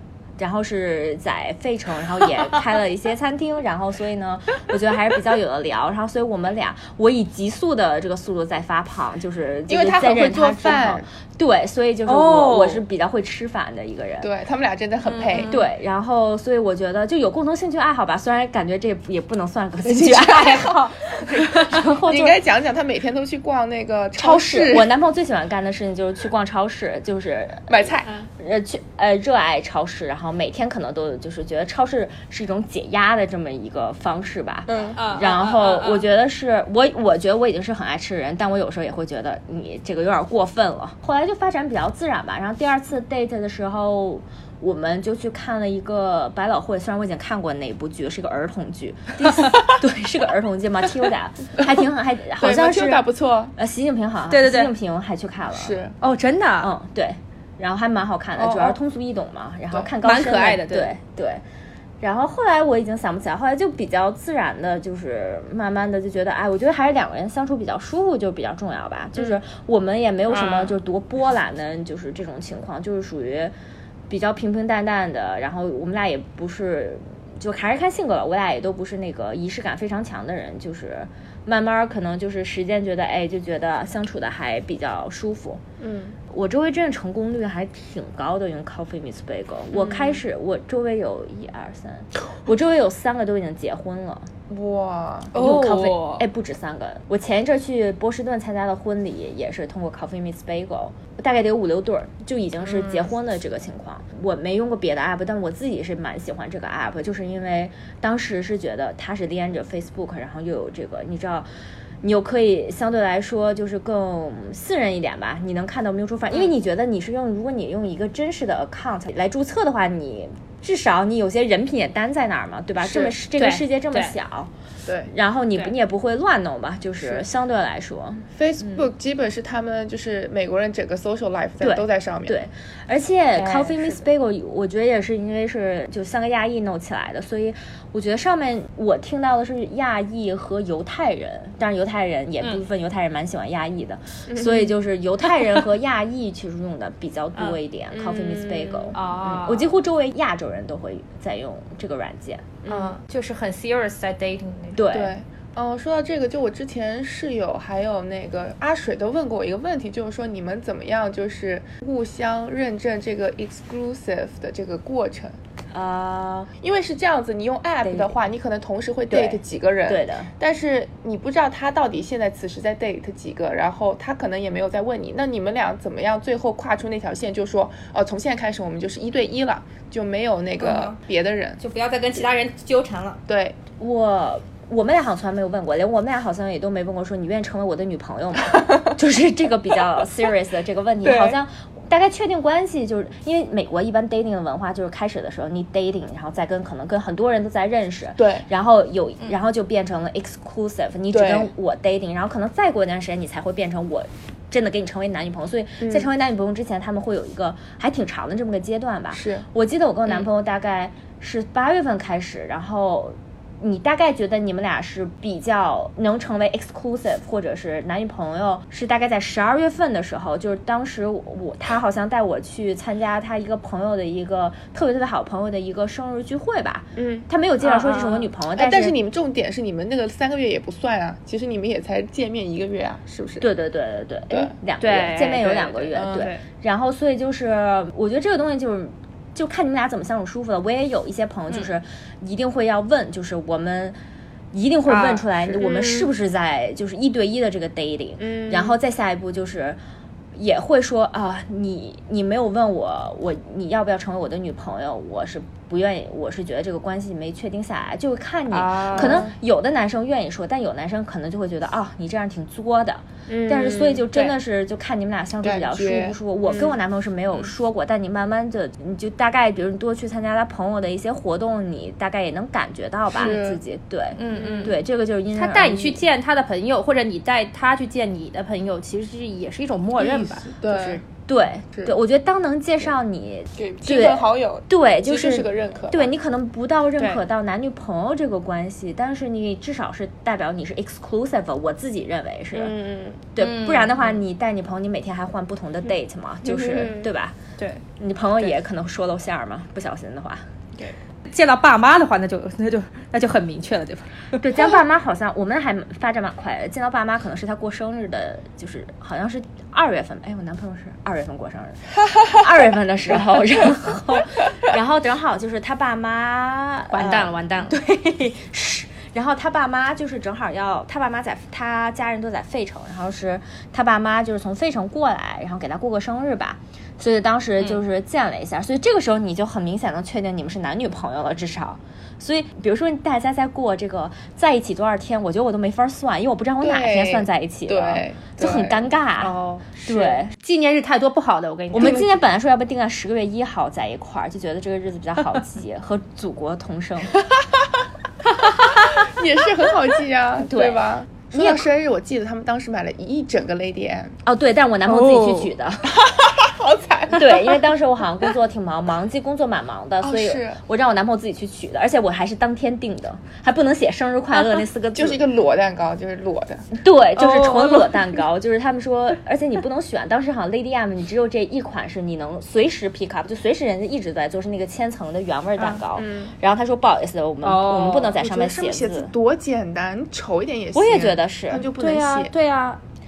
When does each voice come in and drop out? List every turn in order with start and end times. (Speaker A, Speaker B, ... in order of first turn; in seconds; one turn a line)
Speaker A: 0.4-14.3
Speaker B: 9.7-11.1
Speaker B: 12.1-12.7
Speaker C: 12.3-12.7
Speaker B: 14.2-15.6
Speaker C: 15.1-15.6
Speaker A: 15.4-22.4
Speaker B: 19.8-24.9
Speaker A: 24.2-27.8
Speaker B: 27.7-28.1
Speaker A: 28.4-55.8
Speaker B: 34.7-35.0
Speaker C: 35.0-36.0
Speaker B: 52.4-53.5
Speaker C: 54.3-54.7
Speaker B: 55.5-55.9
Speaker C: 56.0-56.7
Speaker A: 56.6-61.4
Speaker C: 58.4-58.7
Speaker C: 60.0-60.9
Speaker A: 62.0-73.5
Speaker C: 70.3-70.8
Speaker A: 74.1-85.6
Speaker B: 85.8-86.2
Speaker A: 86.3-94.3
Speaker B: 89.8-90.1
Speaker B: 94.5-95.3
Speaker C: 95.3-96.2
Speaker A: 95.3-111.5
Speaker C: 102.7-103.0
Speaker A: 112.0-124.5
Speaker B: 122.8-123.1
Speaker C: 123.3-124.1
Speaker B: 124.8-125.1
Speaker A: 125.1-128.8
Speaker B: 127.0-127.2
Speaker B: 128.3-132.4
Speaker A: 131.6-152.5
Speaker C: 133.3-134.0
Speaker B: 144.3-144.7
Speaker B: 147.9-149.0
Speaker C: 148.9-149.7
Speaker B: 152.6-153.0
Speaker C: 152.7-154.8
Speaker A: 154.7-155.1
Speaker B: 154.9-165.4
Speaker A: 165.7-166.5
Speaker B: 166.6-181.6
Speaker A: 167.8-168.1
Speaker A: 169.1-170.3
Speaker C: 180.6-181.0
Speaker C: 181.6-183.2
Speaker B: 183.3-183.6
Speaker A: 183.8-228.9
Speaker B: 191.0-191.4
Speaker B: 198.2-198.5
Speaker B: 201.1-201.5
Speaker B: 205.8-206.1
Speaker B: 209.1-209.4
Speaker B: 226.9-227.3
Speaker C: 227.6-228.3
Speaker B: 228.5-233.5
Speaker A: 233.4-244.0
Speaker C: 234.8-236.4
Speaker B: 235.9-236.3
Speaker A: 244.5-249.8
Speaker C: 244.9-246.1
Speaker C: 248.2-248.8
Speaker A: 250.3-276.0
Speaker C: 258.5-259.2
Speaker B: 258.9-259.3
Speaker C: 263.3-264.3
Speaker B: 265.4-266.7
Speaker B: 273.1-273.6
Speaker C: 274.2-274.8
Speaker B: 274.3-274.7
Speaker C: 275.3-281.0
Speaker B: 280.0-281.0
Speaker A: 281.3-292.8
Speaker B: 283.6-286.1
Speaker B: 292.6-293.2
Speaker A: 293.3-297.4
Speaker C: 293.4-294.2
Speaker C: 296.4-297.0
Speaker A: 298.0-300.4
Speaker C: 301.3-304.4
Speaker A: 304.4-339.3
Speaker C: 316.9-317.8
Speaker B: 336.6-338.9
Speaker C: 339.2-342.1
Speaker A: 339.8-340.3
Speaker A: 341.7-347.2
Speaker B: 348.9-354.1
Speaker A: 350.4-351.7
Speaker A: 354.2-356.0
Speaker C: 354.9-355.5
Speaker B: 355.9-357.6
Speaker A: 357.1-365.2
Speaker B: 360.0-360.6
Speaker B: 364.9-366.7
Speaker A: 366.7-379.1
Speaker C: 367.1-368.1
Speaker B: 375.9-376.3
Speaker C: 377.4-378.1
Speaker B: 378.1-382.3
Speaker A: 380.7-381.7
Speaker C: 381.8-382.8